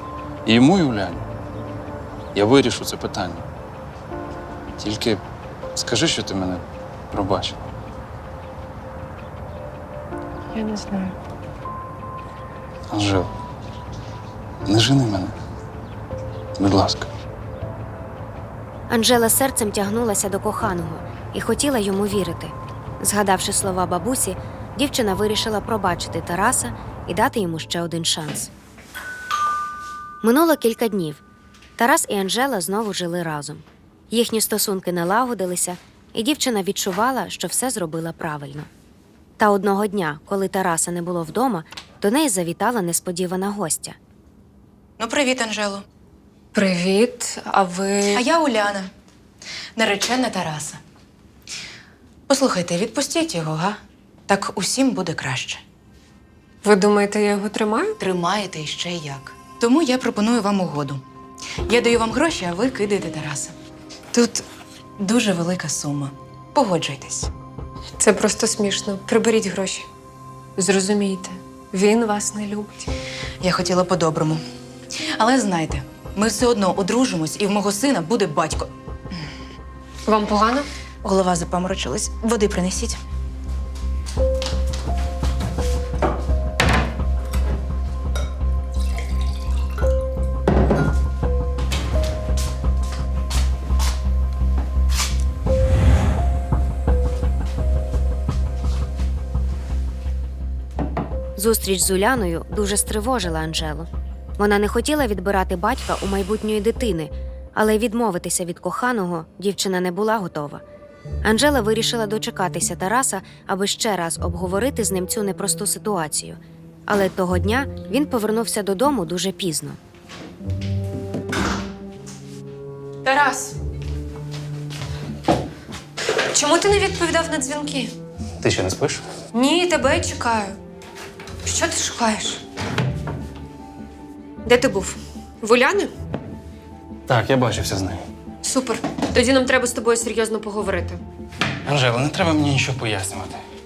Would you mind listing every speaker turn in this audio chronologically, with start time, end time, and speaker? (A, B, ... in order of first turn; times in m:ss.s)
0:00.5-0:01.3 A
0:02.4-0:03.4 A
0:04.8-0:05.2 A
0:05.8-0:07.7 A
0:10.5-0:11.2 B
0:12.9-0:13.3 A
0:14.7-0:15.4 A
0:16.6-0:17.1 A
0:18.9-0:28.5 C
0:30.2-0:31.2 C
0:31.8-0:38.7 C
0:39.4-0:44.0 C
0:45.0-0:45.8 D
0:46.5-0:48.2 B
0:48.1-0:48.9 D
0:49.8-0:50.8 D
0:52.3-0:55.6 D
0:56.6-0:57.9 B
0:58.0-1:01.0 D
1:01.7-1:03.6 D
1:04.1-1:04.4 D
1:05.0-1:07.3 D
1:08.0-1:09.9 B
1:10.6-1:12.9 B
1:13.4-1:14.4 D
1:15.2-1:18.7 D
1:20.1-1:20.7 B
1:21.0-1:23.0 D
1:41.4-1:50.6 C
1:51.2-1:59.8 C
2:03.0-2:03.6 B
2:06.3-2:07.9 B
2:08.4-2:09.0 A
2:09.3-2:10.6 B
2:11.4-2:12.4 B
2:14.4-2:15.9 B
2:17.1-2:18.0 A
2:18.4-2:21.0 B
2:21.6-2:23.4 A